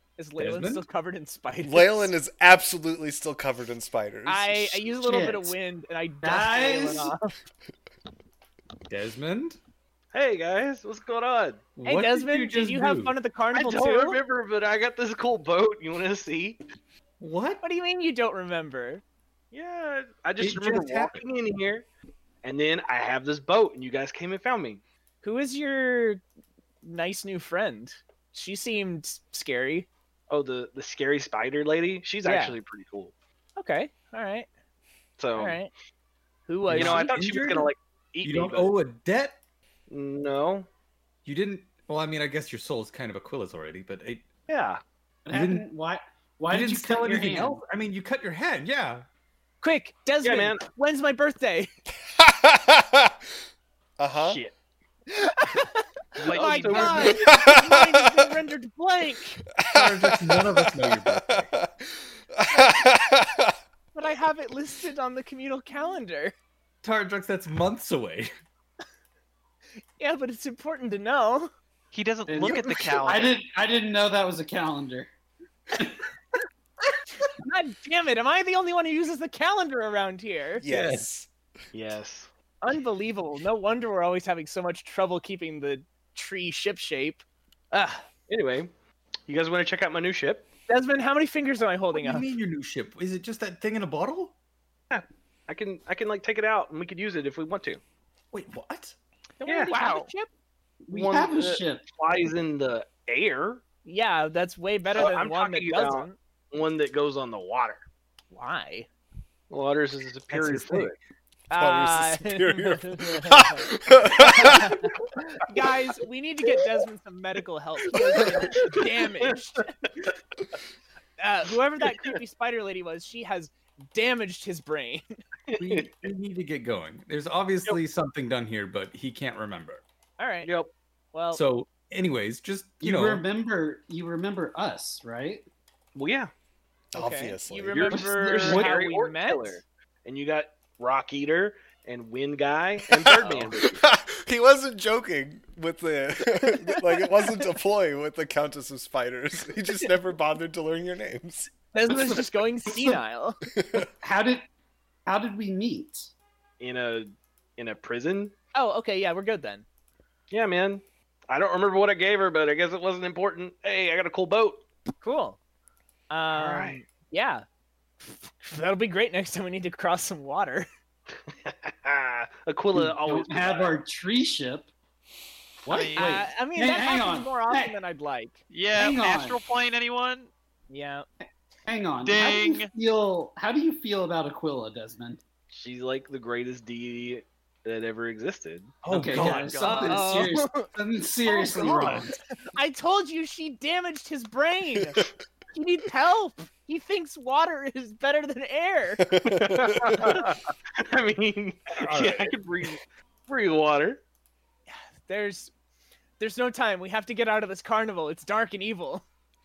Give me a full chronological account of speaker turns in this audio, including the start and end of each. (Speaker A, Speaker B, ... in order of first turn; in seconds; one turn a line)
Speaker A: 0.2-2.1
Speaker B: 0.4-0.8
Speaker C: 1.6-4.9
Speaker A: 4.2-7.3
Speaker D: 5.0-5.5
Speaker D: 6.2-7.1
Speaker B: 8.9-9.6
Speaker E: 10.1-11.7
Speaker B: 11.8-13.1
Speaker A: 11.8-14.2
Speaker E: 13.5-16.6
Speaker B: 17.2-17.6
Speaker A: 17.6-19.0
Speaker E: 19.5-21.9
Speaker B: 20.4-21.2
Speaker E: 22.4-24.8
Speaker A: 25.2-26.2
Speaker A: 26.8-29.9
Speaker E: 30.3-33.1
Speaker A: 32.2-32.6
Speaker A: 33.6-34.5
Speaker E: 35.2-35.6
Speaker A: 35.4-35.7
Speaker A: 36.5-37.2
Speaker B: 36.7-37.7
Speaker E: 36.7-38.7
Speaker B: 38.2-39.4
Speaker E: 39.9-40.7
Speaker B: 41.2-44.3
Speaker E: 44.5-44.8
Speaker D: 45.2-47.6
Speaker B: 45.3-45.6
Speaker B: 46.5-49.0
Speaker A: 49.6-51.7
Speaker E: 50.2-50.7
Speaker C: 52.1-53.1
Speaker C: 54.0-54.4
Speaker E: 54.2-54.5
Speaker A: 55.1-59.4
Speaker E: 56.2-57.3
Speaker F: 56.3-57.1
Speaker C: 57.2-58.3
Speaker C: 59.6-61.7
Speaker B: 59.7-61.5
Speaker C: 62.3-63.5
Speaker A: 63.9-66.3
Speaker B: 66.8-68.3
Speaker A: 70.0-71.5
Speaker F: 71.9-73.4
Speaker D: 72.3-75.1
Speaker A: 77.2-80.6
Speaker C: 80.6-81.3
Speaker B: 80.6-81.1
Speaker E: 81.7-82.3
Speaker A: 82.6-88.1
Speaker E: 88.3-88.7
Speaker E: 89.3-90.5
Speaker A: 90.7-92.3
Speaker B: 91.9-94.3
Speaker E: 94.9-97.8
Speaker B: 98.3-99.0
Speaker A: 99.4-100.3
Speaker E: 99.5-99.7
Speaker F: 99.7-100.1
Speaker D: 100.8-101.8
Speaker E: 100.9-103.6
Speaker A: 103.8-106.2
Speaker E: 104.9-107.8
Speaker A: 108.3-108.9
Speaker E: 109.5-111.0
Speaker A: 111.5-119.7
Speaker C: 111.5-114.8
Speaker E: 117.9-120.1
Speaker A: 121.2-125.1
Speaker E: 125.5-125.9
Speaker B: 125.5-129.8
Speaker A: 130.2-130.5
Speaker E: 130.4-130.7
Speaker A: 131.1-131.4
Speaker B: 131.3-133.2
Speaker D: 132.8-135.4
Speaker E: 135.9-136.3
Speaker C: 136.9-138.0
Speaker A: 136.9-139.6
Speaker E: 137.7-143.8
Speaker C: 142.9-152.2
Speaker A: 151.7-153.4
Speaker D: 152.7-153.0
Speaker C: 153.5-153.9
Speaker D: 154.0-154.4
Speaker D: 155.1-156.1
Speaker E: 156.6-158.3
Speaker A: 158.5-159.7
Speaker E: 160.3-164.7
Speaker A: 165.0-165.4
Speaker A: 166.1-167.4
Speaker E: 166.3-166.8
Speaker A: 168.0-170.7
Speaker E: 171.2-173.8
Speaker D: 172.7-174.7
Speaker D: 175.6-177.8
Speaker F: 175.7-176.2
Speaker A: 175.8-178.4
Speaker F: 178.5-180.3
Speaker D: 178.8-179.4
Speaker A: 180.7-181.1
Speaker D: 181.7-185.2
Speaker F: 182.0-182.7
Speaker E: 185.5-188.8
Speaker B: 188.8-190.0
Speaker D: 188.8-192.2
Speaker A: 188.9-190.7
Speaker F: 189.2-190.1
Speaker A: 191.3-191.7
Speaker B: 191.7-192.0
Speaker A: 192.5-199.0
Speaker C: 199.1-200.1
Speaker E: 199.2-204.0
Speaker B: 201.7-202.3
Speaker A: 204.7-205.5
Speaker A: 206.2-209.0